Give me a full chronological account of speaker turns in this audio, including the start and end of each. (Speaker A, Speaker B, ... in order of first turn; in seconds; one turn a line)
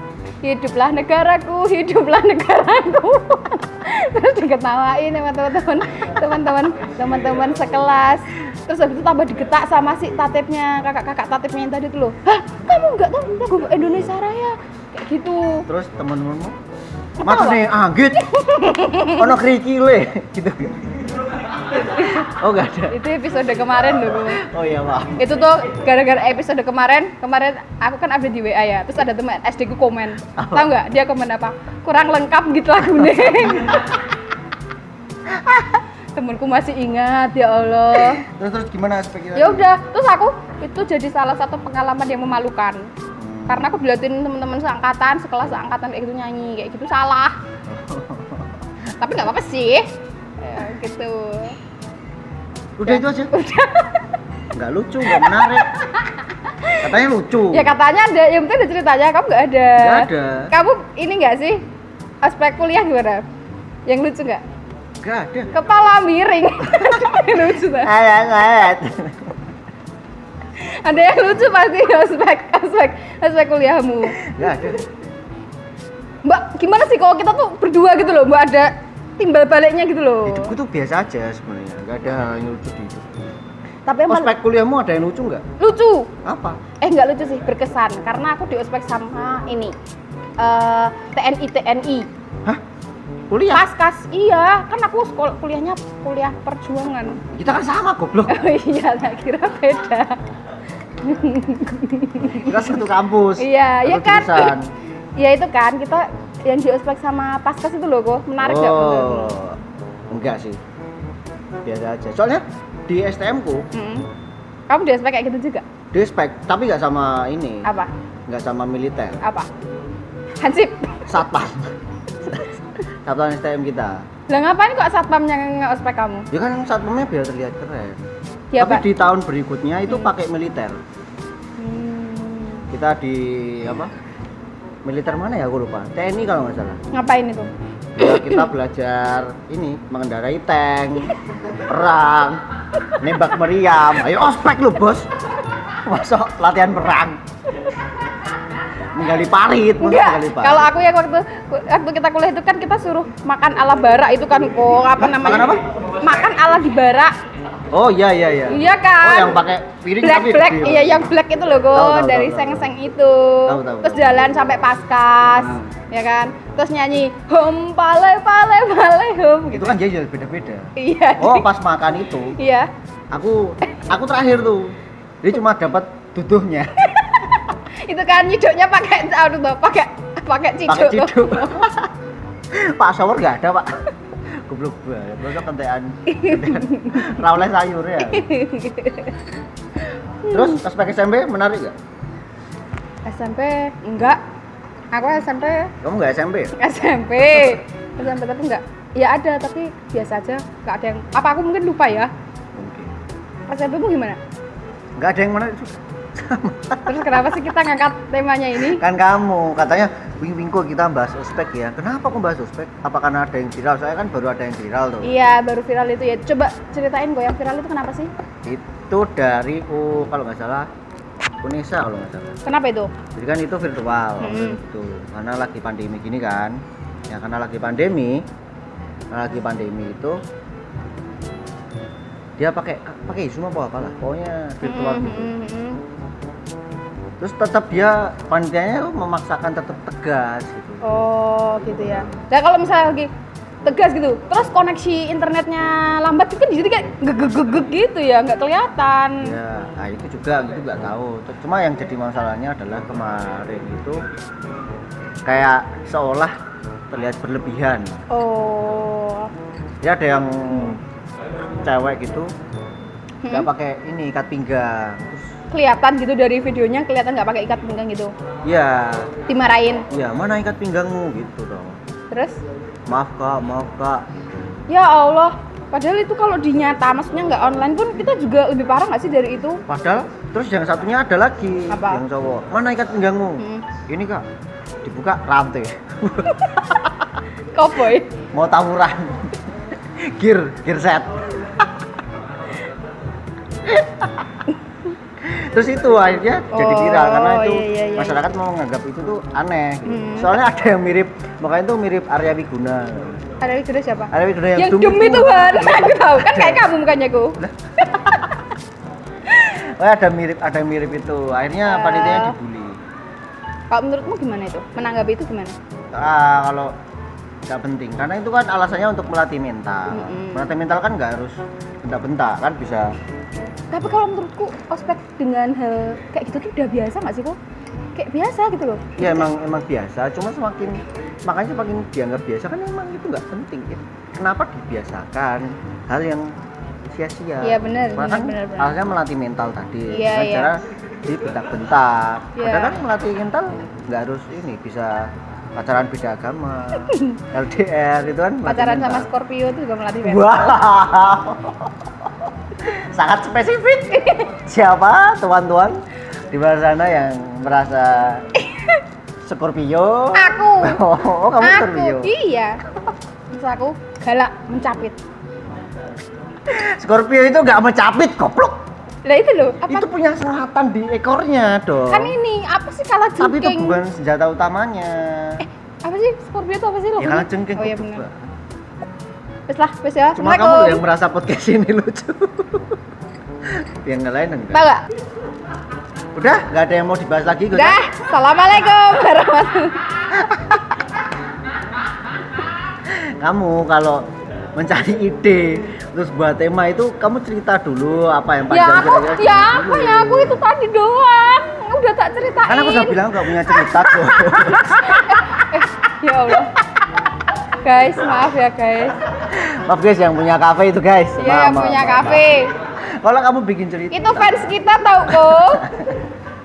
Speaker A: 0.4-15.7
Speaker B: 15.7-16.6
Speaker B: 17.2-18.3
Speaker A: 17.2-17.6
Speaker A: 18.2-19.4
Speaker B: 19.0-21.1
Speaker A: 21.8-22.2
Speaker B: 21.8-23.0
Speaker A: 22.9-24.4
Speaker B: 23.8-25.4
Speaker A: 25.2-34.0
Speaker B: 30.4-30.7
Speaker A: 35.5-38.2
Speaker B: 37.9-39.7
Speaker A: 39.3-42.8
Speaker B: 43.2-43.8
Speaker A: 43.5-47.4
Speaker B: 47.7-48.6
Speaker A: 49.0-49.9
Speaker A: 50.4-51.6
Speaker B: 52.8-53.3
Speaker A: 52.8-54.1
Speaker B: 54.5-55.7
Speaker A: 55.0-56.9
Speaker B: 56.8-57.7
Speaker A: 57.5-61.6
Speaker B: 59.8-60.5
Speaker A: 62.2-63.2
Speaker A: 63.9-64.4
Speaker B: 65.0-65.5
Speaker A: 65.5-67.9
Speaker B: 67.6-69.4
Speaker A: 70.6-74.7
Speaker B: 74.2-74.9
Speaker A: 76.2-80.5
Speaker B: 80.2-83.2
Speaker A: 83.9-84.3
Speaker B: 84.1-85.4
Speaker A: 85.6-86.1
Speaker B: 86.2-86.6
Speaker A: 86.8-89.8
Speaker A: 90.4-92.1
Speaker B: 93.3-93.6
Speaker A: 93.5-97.2
Speaker B: 97.3-98.5
Speaker A: 98.3-100.2
Speaker A: 101.0-102.8
Speaker B: 102.2-104.7
Speaker A: 103.4-104.5
Speaker A: 105.2-109.4
Speaker B: 108.4-109.6
Speaker B: 110.1-110.6
Speaker B: 111.6-113.7
Speaker A: 113.7-114.1
Speaker A: 114.7-115.6
Speaker B: 115.9-117.7
Speaker A: 117.6-117.9
Speaker B: 118.3-119.2
Speaker A: 119.2-119.5
Speaker A: 120.4-121.2
Speaker B: 121.1-121.7
Speaker B: 123.0-124.0
Speaker A: 124.3-126.3
Speaker B: 126.3-128.0
Speaker A: 128.5-128.8
Speaker B: 128.6-130.8
Speaker A: 131.6-132.6
Speaker B: 132.7-133.9
Speaker B: 134.8-136.8
Speaker A: 136.9-138.5
Speaker B: 138.0-142.4
Speaker B: 143.0-145.1
Speaker B: 145.8-147.2
Speaker B: 148.9-150.7
Speaker A: 149.8-157.1
Speaker B: 155.0-155.6
Speaker B: 157.7-161.1
Speaker A: 158.5-159.4
Speaker A: 160.0-169.8
Speaker B: 161.7-162.7
Speaker B: 163.5-164.4
Speaker B: 165.4-165.7
Speaker B: 169.5-172.4
Speaker A: 170.8-171.5
Speaker A: 172.4-172.7
Speaker B: 173.1-176.8
Speaker A: 176.9-177.2
Speaker A: 177.9-181.7
Speaker B: 180.7-181.9
Speaker B: 182.5-183.8
Speaker B: 184.4-188.3
Speaker A: 186.1-187.2
Speaker A: 188.0-189.2
Speaker A: 189.8-190.6
Speaker B: 190.3-191.8
Speaker A: 193.1-194.2
Speaker A: 194.9-195.7
Speaker B: 195.8-196.5
Speaker A: 196.6-202.1
Speaker B: 202.6-202.9
Speaker A: 203.5-204.2
Speaker B: 205.0-207.3
Speaker A: 206.9-208.8
Speaker B: 208.6-215.1
Speaker A: 215.0-218.1
Speaker B: 218.4-220.7
Speaker B: 221.4-222.4
Speaker A: 222.4-222.9
Speaker B: 223.2-226.6
Speaker A: 224.2-224.6
Speaker B: 227.1-228.3
Speaker B: 229.1-230.2
Speaker B: 232.4-235.3
Speaker A: 234.6-235.8
Speaker B: 237.2-240.8
Speaker A: 240.8-243.1
Speaker A: 243.6-249.3
Speaker B: 249.2-254.0
Speaker B: 255.2-256.3
Speaker B: 256.9-258.0
Speaker A: 258.1-259.3
Speaker B: 259.8-260.8
Speaker A: 260.5-260.8
Speaker B: 261.6-262.3
Speaker A: 263.2-263.5
Speaker B: 263.3-265.3
Speaker A: 265.5-268.1
Speaker B: 268.5-269.1
Speaker A: 269.3-269.9
Speaker B: 269.9-271.8
Speaker A: 272.1-272.4
Speaker B: 272.9-274.0
Speaker A: 274.7-279.6
Speaker B: 279.7-284.2
Speaker A: 281.7-282.0
Speaker A: 283.4-283.6
Speaker B: 284.8-287.0
Speaker A: 287.5-288.1
Speaker B: 288.3-291.3
Speaker B: 293.6-294.3
Speaker B: 295.2-303.2
Speaker A: 296.5-298.2
Speaker A: 299.9-300.4
Speaker A: 303.4-308.4
Speaker B: 304.1-306.7
Speaker B: 309.3-312.8
Speaker A: 311.6-312.4
Speaker A: 313.7-315.5
Speaker B: 315.9-316.7
Speaker B: 317.5-322.9
Speaker A: 319.9-320.5
Speaker A: 323.7-327.4
Speaker A: 328.0-329.3
Speaker B: 329.0-336.3
Speaker B: 336.9-349.1
Speaker A: 337.4-338.8
Speaker A: 339.9-340.5
Speaker A: 342.4-342.8
Speaker A: 346.8-347.2
Speaker A: 348.5-350.3
Speaker B: 350.0-358.2
Speaker A: 353.9-354.3
Speaker A: 358.4-358.8
Speaker B: 359.2-362.1
Speaker A: 360.1-360.8
Speaker A: 361.4-362.6
Speaker A: 363.3-365.0
Speaker B: 366.4-368.6
Speaker A: 369.0-369.9
Speaker B: 369.7-372.2
Speaker A: 371.9-373.8
Speaker B: 373.2-375.4
Speaker A: 375.4-378.0
Speaker B: 377.0-378.3
Speaker A: 379.5-380.8
Speaker B: 380.1-382.8
Speaker B: 383.5-384.6
Speaker A: 384.5-384.8
Speaker B: 386.1-387.9
Speaker A: 387.5-389.8
Speaker B: 390.1-390.8
Speaker B: 392.9-400.5
Speaker A: 398.5-406.6
Speaker B: 402.5-405.4
Speaker A: 407.6-409.0
Speaker B: 409.1-412.3
Speaker A: 411.2-412.5
Speaker B: 413.0-414.5
Speaker A: 413.9-415.7
Speaker B: 415.1-416.0